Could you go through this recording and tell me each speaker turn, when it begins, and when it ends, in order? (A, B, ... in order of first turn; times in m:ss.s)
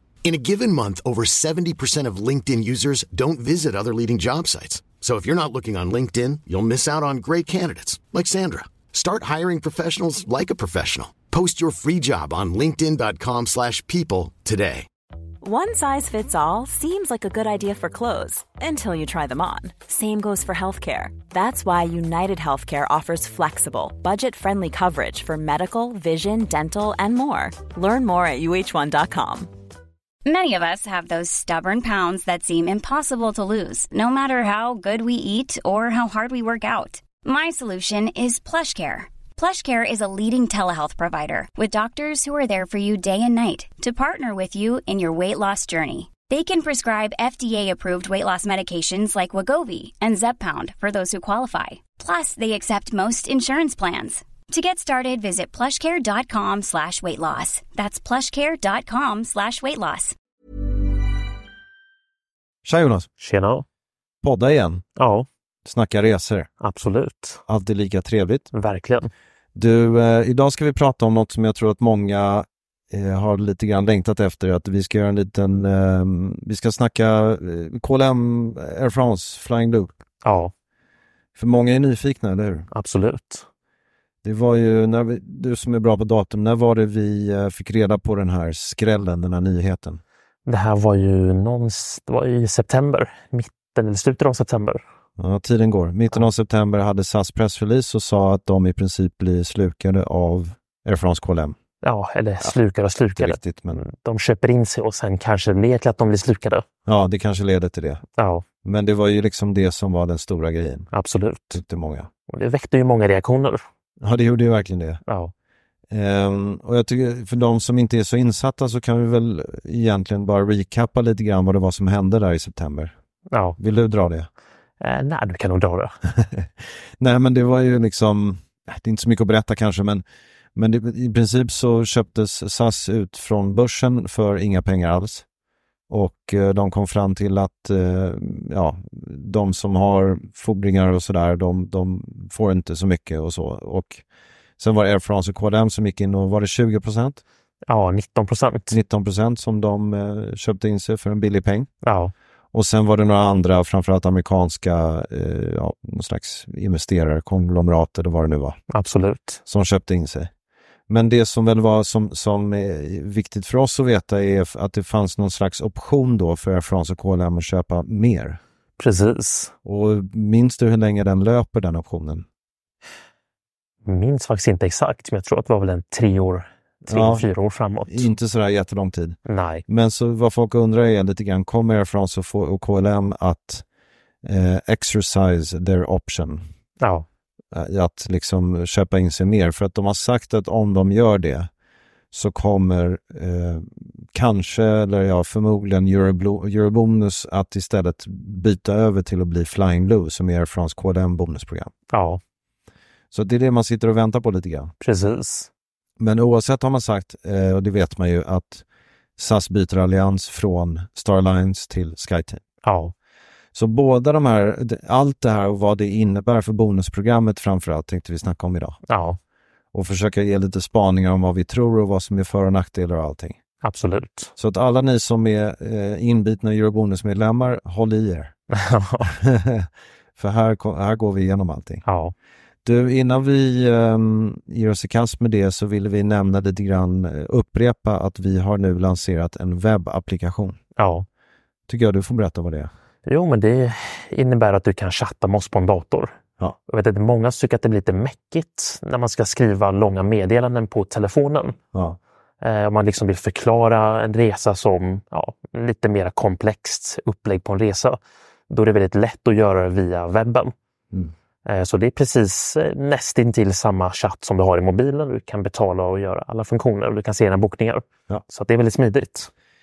0:00.2-0:14.9 A
0:15.4-0:29.5 B
0:30.2-1:00.1 C
1:02.6-1:03.1 D
1:03.2-1:03.6 E
1:04.2-1:04.8 D
1:05.0-1:05.3 E
1:05.6-1:06.5 D
1:06.6-1:07.4 E
1:07.5-1:08.5 D
1:08.5-1:09.1 E
1:09.5-1:19.9 D
1:20.2-1:20.5 E
1:21.4-1:22.7 D
1:22.7-1:23.4 E
1:24.2-1:30.0 D
1:30.4-1:34.8 E
1:35.2-1:41.6 D
1:41.8-1:46.6 E
1:43.2-1:43.8 D
1:46.8-1:48.0 D
1:48.2-1:48.4 E
1:48.6-1:50.9 D
1:50.9-1:51.6 E
1:51.5-1:52.1 D
1:52.3-1:53.6 E
1:54.0-1:55.0 D
1:55.1-1:55.3 E
1:55.9-2:02.9 D
2:03.3-2:03.6 E
2:03.6-2:04.3 D
2:04.8-2:05.9 E
2:06.1-2:10.0 D
2:10.5-2:15.2 D
2:15.9-2:24.0 D
2:24.6-2:27.2 D
2:27.7-2:28.8 E
2:28.7-2:31.7 D
2:31.8-2:32.1 E
2:32.5-2:38.6 D
2:38.7-2:39.4 E
2:39.4-2:40.3 D
2:40.9-2:48.4 D
2:48.8-2:49.5 E
2:49.6-2:52.2 D
2:53.8-2:58.1 E
2:56.9-2:57.3 D
2:57.9-3:03.6 D
2:59.2-2:59.6 E
3:04.2-3:06.5 D
3:06.8-3:07.0 E
3:07.5-3:11.5 D
3:12.1-3:21.7 D
3:21.9-3:22.2 E
3:23.1-3:24.7 D
3:24.8-3:25.5 E
3:26.0-3:28.6 D
3:29.2-3:32.4 D
3:32.6-3:32.9 E
3:33.5-3:38.8 D
3:38.9-3:39.2 E
3:39.7-3:43.4 D
3:43.6-3:44.3 E
3:44.4-3:48.3 D
3:48.5-3:49.1 E
3:49.0-3:51.8 D
3:51.8-3:52.1 E
3:52.6-4:00.6 D
4:00.8-4:01.0 E
4:01.7-4:02.7 D
4:03.0-4:06.2 E
4:06.7-4:11.6 E
4:11.7-4:12.0 D
4:12.4-4:18.0 E
4:18.5-4:20.5 E
4:21.4-4:29.3 E